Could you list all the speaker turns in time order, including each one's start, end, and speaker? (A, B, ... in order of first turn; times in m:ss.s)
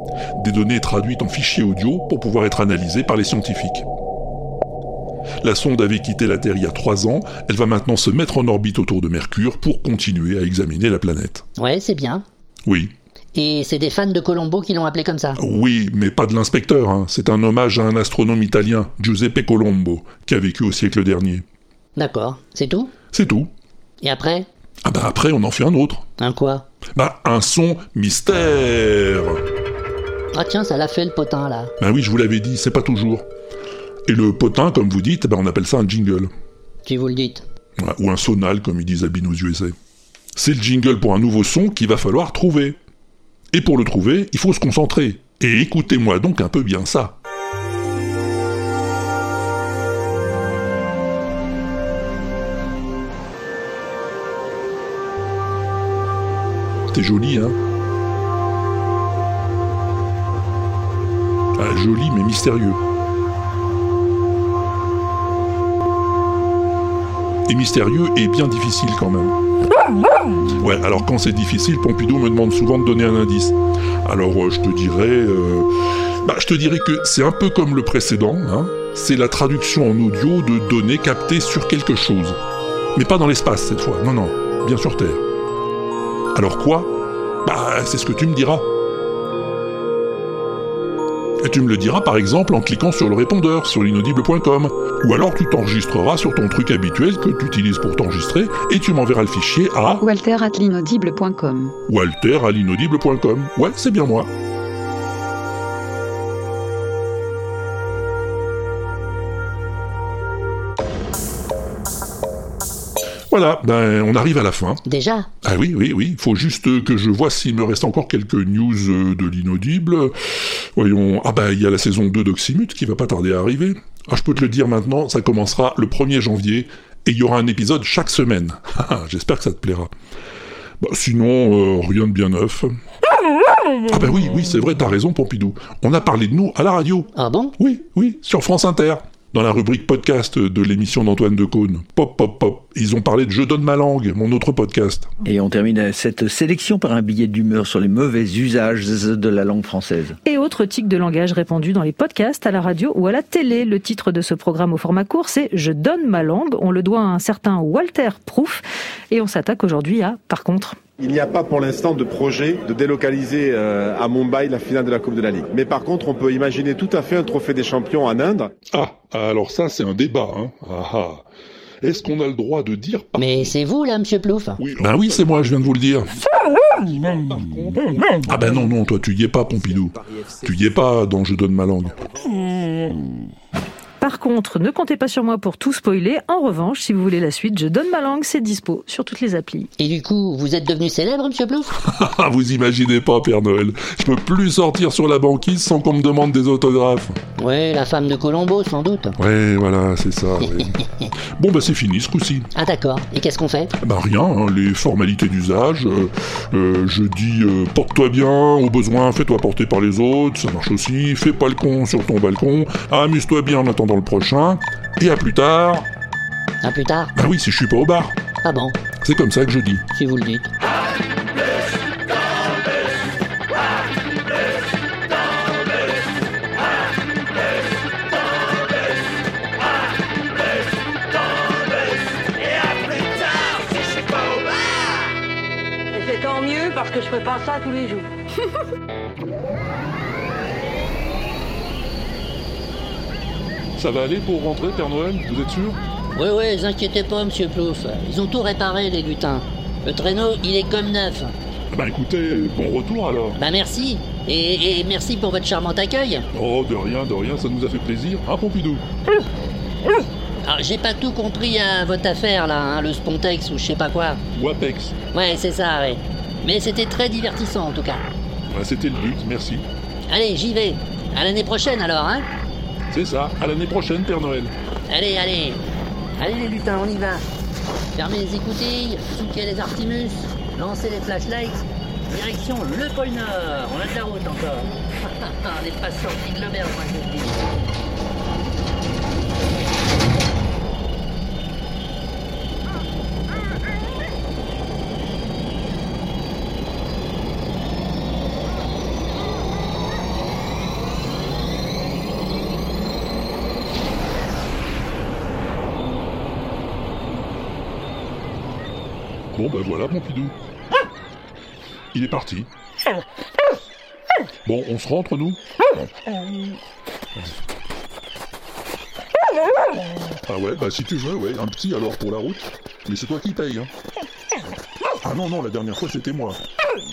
0:00.4-0:03.8 A
0:05.4-0:11.4 A
0:11.6-0:12.2 B
0:12.7-0:12.9 A
0:13.4-0:15.4 B
0:15.4-0:21.4 A
0:22.0-0:22.9 B
0:23.1-0:23.5 A
0:24.0-0:24.5 B
0:24.8-0:26.1 A
0:26.2-0:26.7 B
0:27.0-0:29.4 A
0:30.3-0:31.7 B
0:31.8-0:33.3 A
0:34.1-0:36.3 A
0:36.8-0:37.4 B
0:37.8-0:39.8 A
0:40.4-0:42.8 A
0:43.5-0:47.2 A
0:56.9-0:57.6 A
1:01.6-1:02.8 A
1:07.5-1:09.4 A
1:10.6-1:15.7 A
1:16.2-1:22.4 A
1:23.0-1:25.2 A
1:26.3-1:28.7 A
1:31.4-1:40.0 A
1:41.9-1:44.3 A
1:53.3-1:54.8 A
1:54.9-1:55.3 B
1:55.4-2:09.9 A
2:10.8-2:12.7 A
2:13.9-2:25.1 A
2:17.1-2:17.6 B
2:25.2-2:30.2 C
2:30.2-2:40.8 D
2:41.0-2:48.5 E
2:48.7-2:51.3 A
2:51.8-2:53.5 A
2:53.2-2:54.6 B
2:54.6-3:02.0 A
3:04.0-3:09.7 D
3:09.8-3:11.8 B
3:11.8-3:17.2 A
3:17.4-3:19.2 B
3:19.2-3:22.5 A
3:22.6-3:23.7 B
3:23.8-3:35.9 A
3:36.6-3:37.1 B
3:37.2-3:38.2 A
3:38.4-3:38.8 B
3:39.0-3:39.8 A
3:39.9-3:40.5 B
3:55.9-3:58.1 F
4:03.8-4:05.8 A
4:06.1-4:11.3 B
4:11.7-4:13.4 A
4:13.4-4:16.3 B
4:16.3-4:18.8 A
4:20.4-4:24.2 B
4:24.3-4:25.0 A
4:25.1-4:28.0 B
4:28.5-4:29.7 A
4:30.1-4:32.3 B
4:32.9-4:34.5 A
4:34.9-4:35.6 B
4:36.2-4:37.2 B
4:38.0-4:47.6 B
5:09.3-5:10.4 A
5:11.9-5:12.5 A
5:14.4-5:15.4 A
5:20.2-5:23.7 A
5:25.0-5:26.4 A